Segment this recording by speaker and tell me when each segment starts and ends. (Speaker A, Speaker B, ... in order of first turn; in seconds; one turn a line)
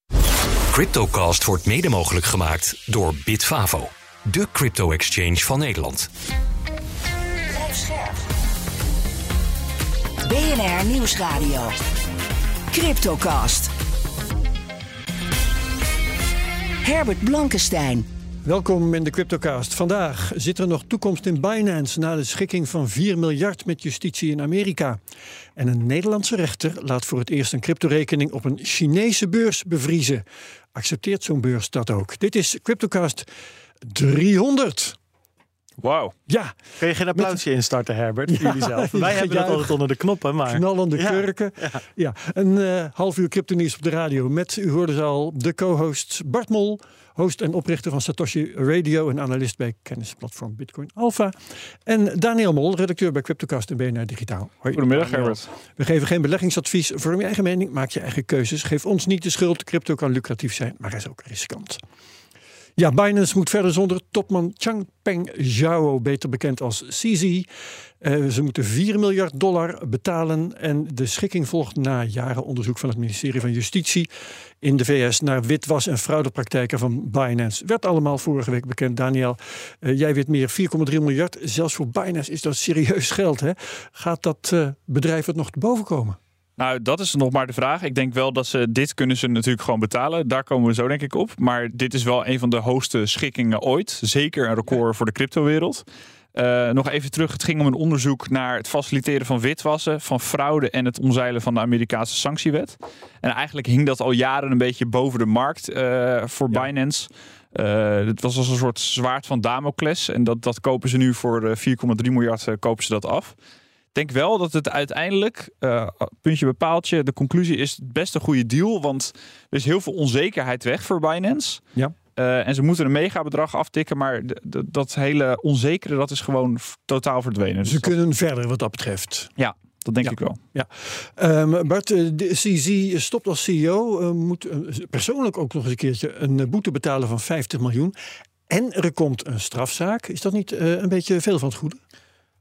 Speaker A: 0.7-6.1
Speaker B: 7.5-8.1
Speaker B: 10.2-11.7
Speaker B: 12.7-13.7
Speaker B: 16.8-18.1
Speaker C: 18.4-25.0
Speaker C: 25.6-33.3
Speaker C: 33.8-35.0
Speaker D: 35.8-36.1
Speaker C: 36.3-36.6
Speaker E: 36.8-41.8
Speaker C: 37.1-37.4
Speaker C: 38.3-39.8
Speaker C: 40.5-61.8
Speaker D: 54.7-55.5
Speaker C: 62.8-67.5
Speaker C: 68.0-74.1
Speaker C: 74.6-86.2
Speaker D: 86.6-95.8
Speaker D: 96.3-113.3
Speaker D: 113.9-121.6
Speaker D: 122.2-127.9
Speaker C: 127.6-129.3
Speaker D: 129.4-130.4
Speaker C: 130.0-137.9
Speaker C: 138.5-141.8